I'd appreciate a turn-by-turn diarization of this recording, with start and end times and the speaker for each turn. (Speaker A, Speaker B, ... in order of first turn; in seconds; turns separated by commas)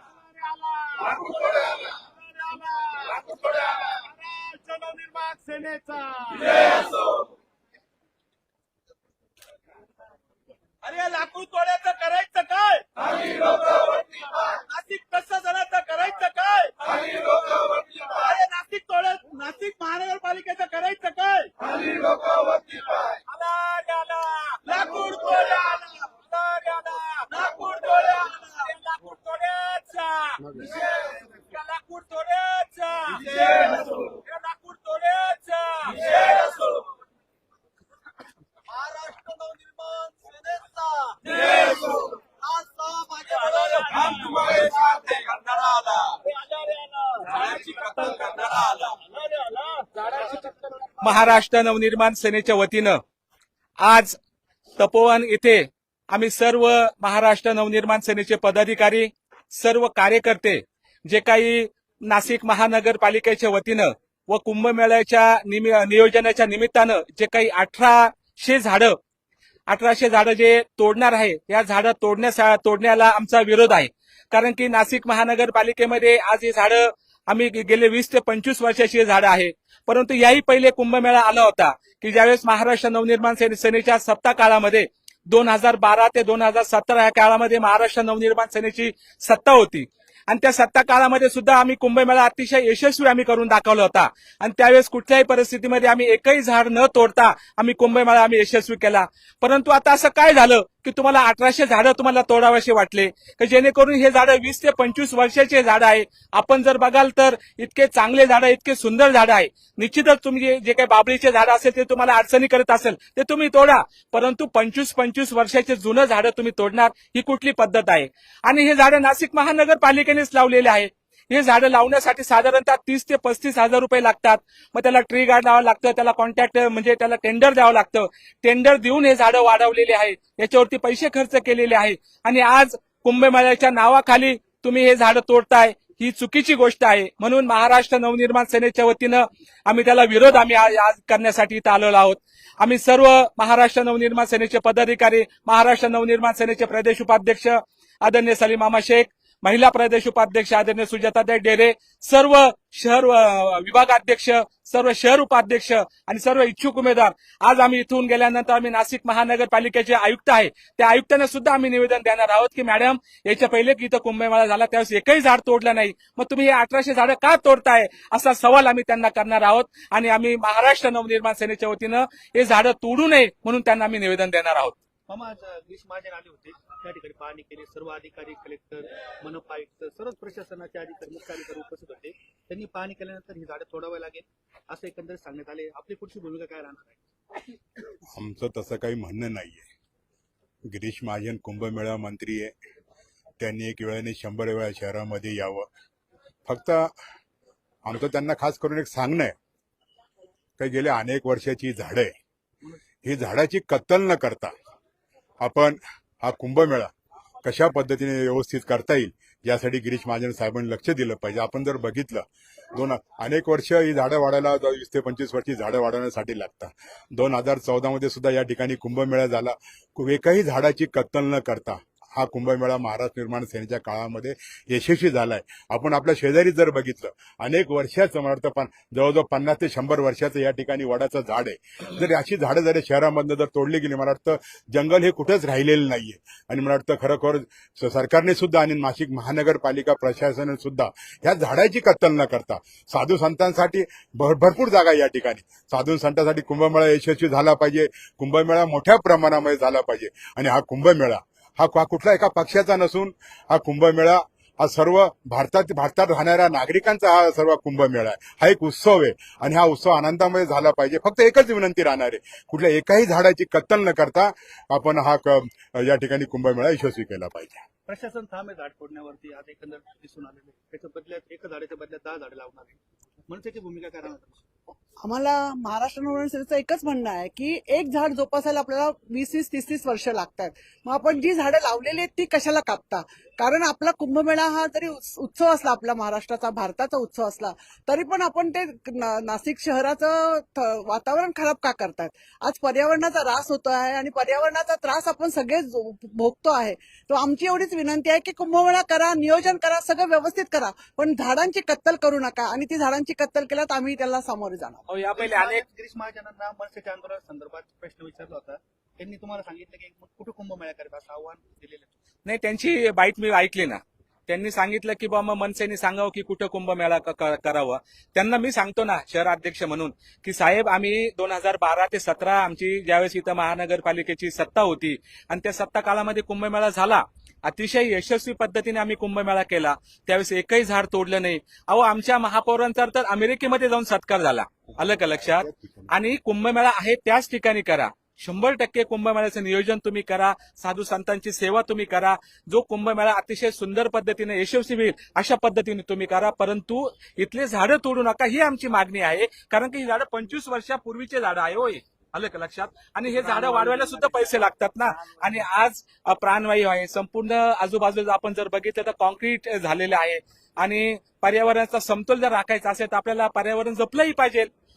Speaker A: 0.3-1.2, Speaker A: 2.3-6.6, Speaker B: 10.9-11.9, Speaker A: 11.9-12.8, Speaker B: 14.7-17.3, Speaker A: 15.9-16.4, Speaker B: 18.1-19.2, Speaker A: 19.2-21.5, Speaker B: 23.1-36.8, Speaker A: 38.8-41.2, Speaker A: 42.4-44.5, Speaker B: 43.2-46.1, Speaker A: 46.3-48.0, Speaker B: 47.3-49.0, Speaker A: 49.1-50.4, Speaker B: 51.0-53.0, Speaker B: 53.8-54.2, Speaker B: 54.8-69.0, Speaker B: 69.7-174.8, Speaker C: 175.1-187.0, Speaker D: 188.1-189.7, Speaker D: 190.7-192.5, Speaker D: 193.4-195.7, Speaker D: 196.4-196.9, Speaker D: 197.8-199.3, Speaker D: 200.6-202.1, Speaker D: 203.0-204.5, Speaker D: 205.4-206.9, Speaker D: 207.4-267.6, Speaker C: 267.9-274.4, Speaker E: 275.0-304.8, Speaker B: 304.9-305.6, Speaker C: 305.1-311.9, Speaker B: 312.2-364.5, Speaker D: 334.8-335.8, Speaker C: 353.0-355.4